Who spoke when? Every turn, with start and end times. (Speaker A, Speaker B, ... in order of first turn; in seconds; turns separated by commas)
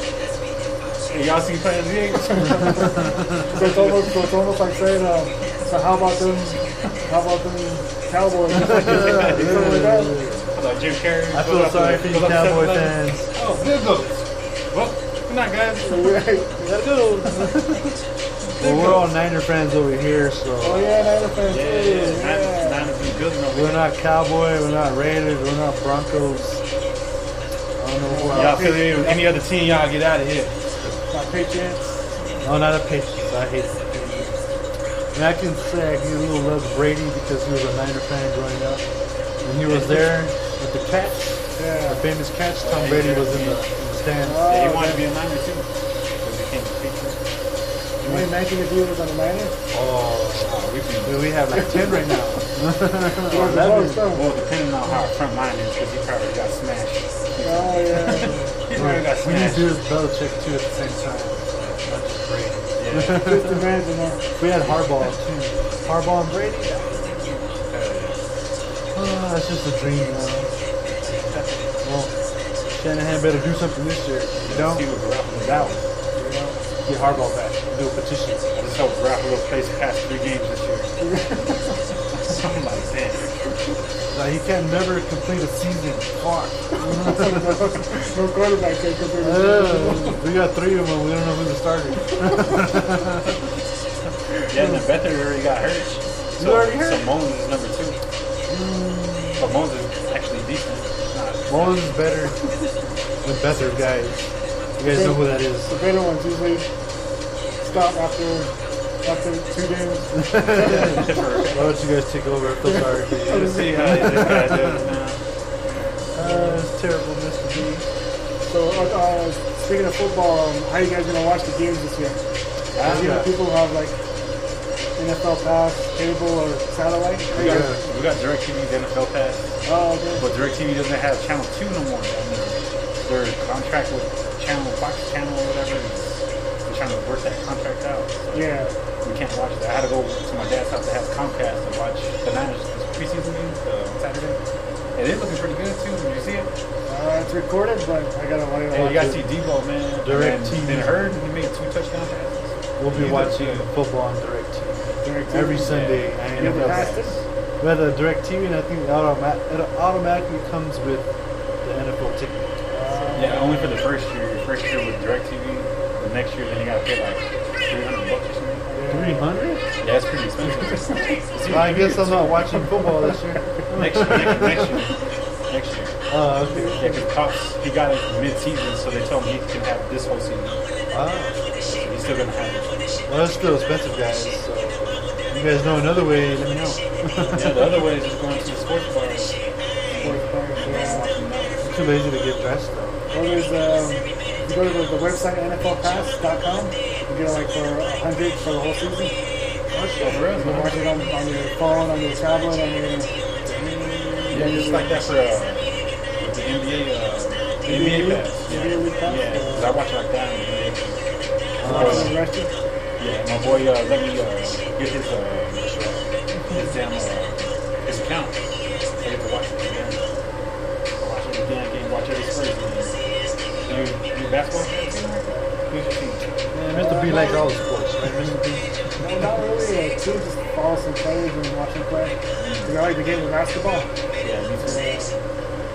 Speaker A: 1.1-4.3, Speaker B: 2.4-10.2, Speaker C: 8.5-10.5, Speaker A: 8.6-9.8, Speaker A: 10.5-16.3, Speaker C: 11.3-13.3, Speaker B: 15.8-16.7, Speaker C: 16.6-18.0, Speaker A: 18.6-19.1, Speaker C: 18.6-21.1, Speaker B: 20.6-23.0, Speaker A: 21.4-23.8, Speaker C: 23.5-26.6, Speaker C: 27.8-28.8, Speaker B: 28.1-29.3, Speaker A: 28.3-30.9, Speaker B: 31.1-31.9, Speaker C: 32.4-34.3, Speaker C: 35.1-38.8, Speaker C: 39.4-44.6, Speaker A: 39.6-40.1, Speaker B: 41.6-42.0, Speaker A: 42.6-43.6, Speaker B: 44.2-45.0, Speaker A: 44.4-45.7, Speaker A: 46.2-47.2, Speaker C: 48.0-48.3, Speaker B: 48.0-49.5, Speaker C: 49.7-54.1, Speaker A: 50.4-51.3, Speaker B: 51.5-52.2, Speaker B: 53.3-54.2, Speaker A: 54.1-59.7, Speaker B: 57.4-58.6, Speaker C: 58.7-63.6, Speaker A: 62.8-63.4, Speaker B: 63.2-64.2, Speaker C: 64.4-67.4, Speaker A: 67.4-68.2, Speaker C: 68.9-70.5, Speaker A: 71.1-71.6, Speaker C: 71.8-72.1, Speaker C: 72.8-75.8, Speaker A: 74.4-75.8, Speaker B: 76.2-76.6, Speaker C: 76.8-78.5, Speaker A: 78.6-80.9, Speaker B: 81.0-81.8, Speaker A: 82.1-83.4, Speaker C: 84.1-87.6, Speaker B: 86.8-90.2, Speaker C: 89.2-93.3, Speaker A: 94.5-98.0, Speaker C: 94.5-94.8, Speaker C: 96.4-97.1, Speaker C: 98.5-99.5, Speaker A: 99.4-102.2, Speaker C: 101.5-102.4, Speaker C: 103.2-104.3, Speaker C: 104.8-105.7, Speaker B: 104.8-106.7, Speaker B: 107.6-111.2, Speaker C: 110.2-114.8, Speaker A: 110.6-111.8, Speaker B: 112.7-114.3, Speaker A: 113.2-115.2, Speaker C: 116.1-117.9, Speaker B: 116.2-116.6, Speaker B: 118.5-122.2, Speaker A: 122.8-123.2, Speaker C: 122.8-123.3, Speaker B: 122.8-124.0, Speaker B: 125.0-127.8, Speaker A: 127.3-129.4, Speaker C: 127.4-127.8, Speaker B: 129.7-130.2, Speaker A: 130.1-138.5, Speaker B: 138.3-138.7, Speaker A: 139.0-144.0, Speaker A: 144.9-146.5, Speaker B: 146.9-149.2, Speaker A: 148.7-153.7, Speaker C: 150.0-151.1, Speaker C: 152.8-157.0, Speaker B: 155.0-157.2, Speaker A: 155.6-157.2, Speaker C: 157.6-161.1, Speaker C: 161.6-163.4, Speaker B: 162.7-163.9, Speaker A: 163.2-168.7, Speaker B: 168.7-169.3, Speaker C: 168.9-169.7, Speaker A: 169.8-172.7, Speaker C: 171.5-174.8, Speaker A: 173.7-175.9, Speaker C: 176.1-176.9, Speaker B: 176.4-177.0, Speaker A: 176.8-180.6, Speaker C: 180.9-181.4, Speaker A: 181.6-182.8, Speaker C: 183.1-187.8, Speaker A: 187.3-189.3, Speaker A: 189.9-191.6, Speaker B: 190.0-191.1, Speaker C: 191.6-193.0, Speaker B: 193.1-199.2, Speaker C: 199.8-200.1, Speaker A: 200.0-201.1, Speaker B: 200.0-205.0, Speaker A: 204.3-211.0, Speaker B: 207.6-209.8, Speaker C: 211.6-212.2, Speaker A: 211.6-212.2, Speaker B: 211.6-212.5, Speaker A: 213.0-215.7, Speaker C: 215.6-216.0, Speaker A: 216.5-218.4, Speaker A: 219.0-220.1, Speaker A: 221.0-222.9, Speaker A: 223.7-226.2, Speaker C: 226.5-228.7, Speaker B: 226.6-227.5, Speaker B: 229.0-233.9, Speaker A: 232.4-232.7, Speaker A: 234.2-234.9, Speaker B: 234.6-235.2